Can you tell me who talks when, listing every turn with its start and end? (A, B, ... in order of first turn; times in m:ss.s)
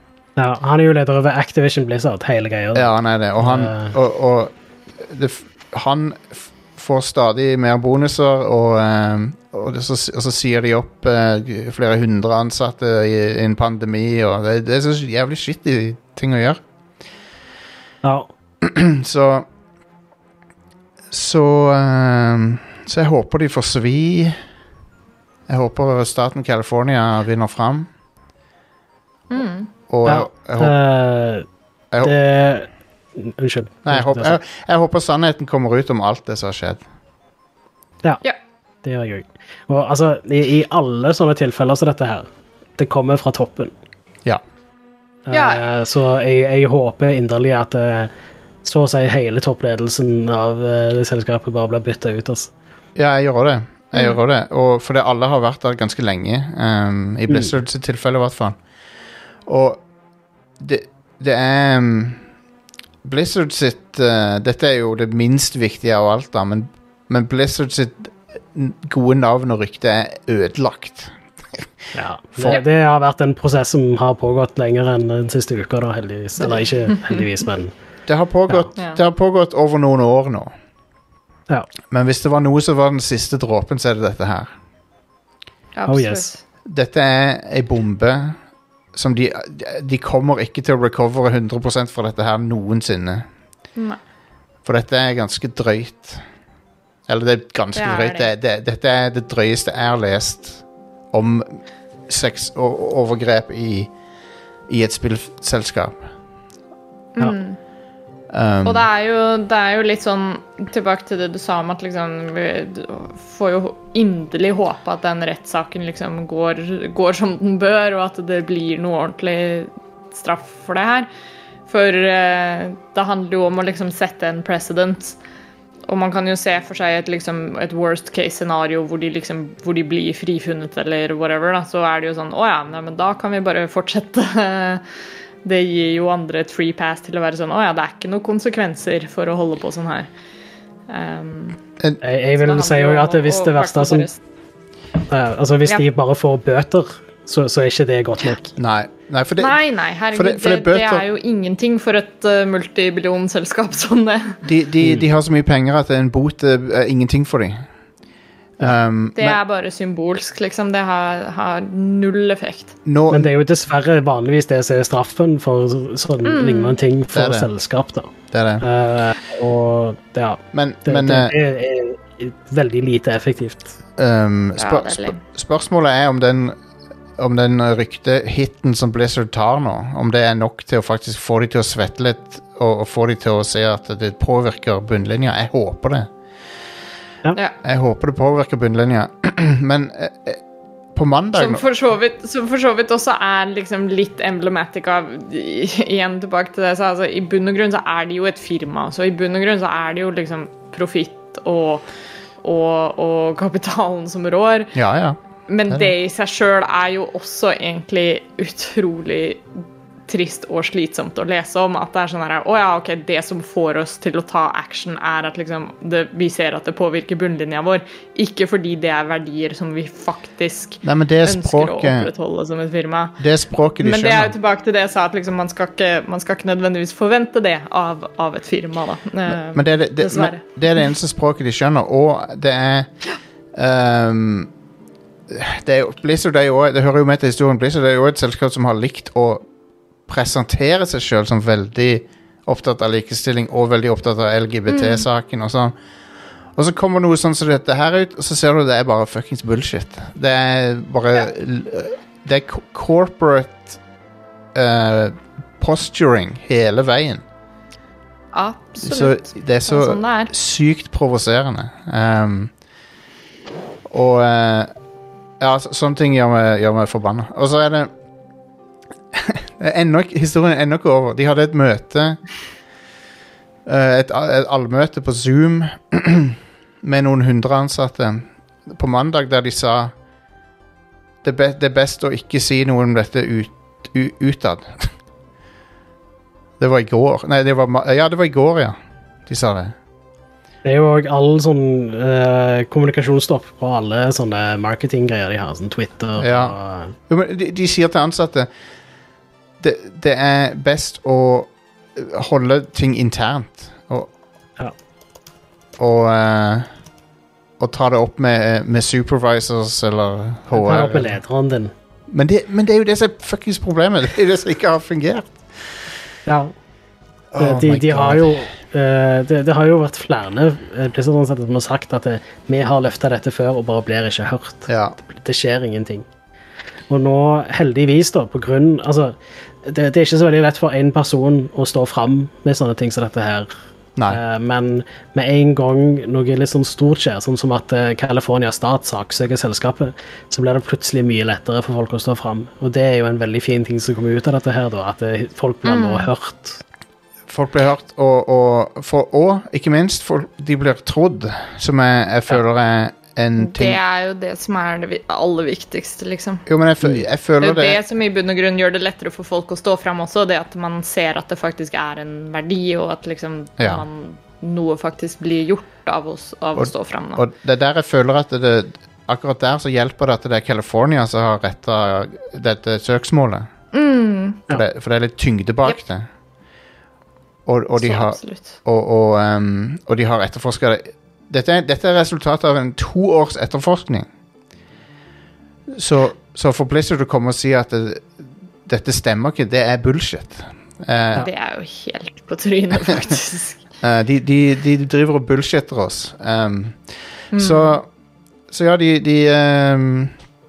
0:00.4-0:03.9 A
0:02.7-0:16.6 B
0:18.0-0:18.3 A
0:18.6-0:19.5 B
0:21.1-0:24.4 B
0:25.5-0:27.9 B
0:29.3-0:29.7 C
0:29.9-0:30.7 B
0:30.0-0:31.4 A
0:32.0-0:34.4 A
0:33.8-0:36.8 B
0:38.8-0:43.7 A
0:45.3-0:48.1 A
0:45.3-0:45.6 C
0:48.6-0:52.5 A
0:52.9-0:58.6 B
0:53.9-0:54.2 C
0:59.4-0:59.8 B
1:00.6-1:02.2 B
1:03.0-1:11.7 B
1:11.9-1:17.7 A
1:18.1-1:20.5 B
1:21.9-1:24.5 B
1:25.7-1:26.4 C
1:25.9-1:26.3 A
1:26.6-1:28.4 B
1:28.9-1:33.3 B
1:34.6-1:36.2 B
1:37.1-1:43.9 B
1:37.8-1:38.3 C
1:44.7-1:46.1 B
1:47.1-1:47.6 C
1:48.3-1:48.9 B
1:48.6-2:01.1 C
2:01.7-2:05.2 C
2:05.9-2:14.8 C
2:15.4-2:20.1 C
2:20.9-2:21.6 C
2:22.0-2:24.1 A
2:22.3-2:24.2 C
2:25.1-2:28.5 A
2:28.6-2:29.6 B
2:29.4-2:34.4 C
2:30.1-2:31.0 B
2:34.4-2:37.7 B
2:34.8-2:35.1 A
2:38.6-2:39.4 B
2:39.1-2:42.7 C
2:42.8-2:43.3 B
2:43.1-2:53.7 A
2:46.2-2:46.8 C
2:47.1-2:47.5 B
2:48.3-2:48.6 B
2:50.5-2:51.3 B
2:54.0-2:56.6 B
2:54.6-2:55.2 C
2:57.2-3:06.1 B
3:07.6-3:10.4 B
3:10.9-3:11.6 B
3:11.4-3:21.8 C
3:22.4-3:24.7 C
3:24.7-3:25.2 B
3:25.5-3:29.4 C
3:30.1-3:43.2 C
3:40.8-3:42.1 B
3:43.2-3:44.3 B
3:43.8-3:50.4 C
3:49.3-3:52.9 B
3:53.5-3:54.5 B
3:55.3-3:59.4 B
4:00.1-4:05.7 B
4:04.7-4:05.0 C
4:06.5-4:13.8 B
4:14.5-4:17.2 B
4:18.3-4:20.3 C
4:18.8-4:22.5 B
4:23.9-4:24.7 B
4:25.4-4:27.9 B
4:29.1-4:32.2 B
4:33.6-4:39.9 B
4:41.2-4:44.9 B
4:46.6-4:49.8 B
4:50.6-4:57.0 A
4:56.2-4:58.5 B
4:59.6-5:04.1 B
5:05.8-5:06.7 B
5:07.6-5:11.2 B
5:10.5-5:11.7 A
5:12.1-5:15.7 B
5:16.2-5:16.5 A
5:17.3-5:18.5 B
5:17.4-5:26.0 A
5:24.7-5:25.0 B
5:26.9-5:33.5 A
5:34.1-5:46.6 A
5:45.6-5:46.1 C
5:47.3-5:53.8 B
5:53.4-5:56.4 C
5:56.4-5:57.8 B
5:57.4-6:07.2 C
6:03.6-6:03.8 B
6:06.6-6:13.5 B
6:13.7-6:14.5 C
6:14.5-6:16.1 B
6:17.4-6:24.1 B
6:17.8-6:18.5 C
6:25.7-6:31.3 B
6:31.2-6:33.6 C
6:33.8-6:37.9 B
6:37.3-6:37.8 C
6:38.5-6:40.2 B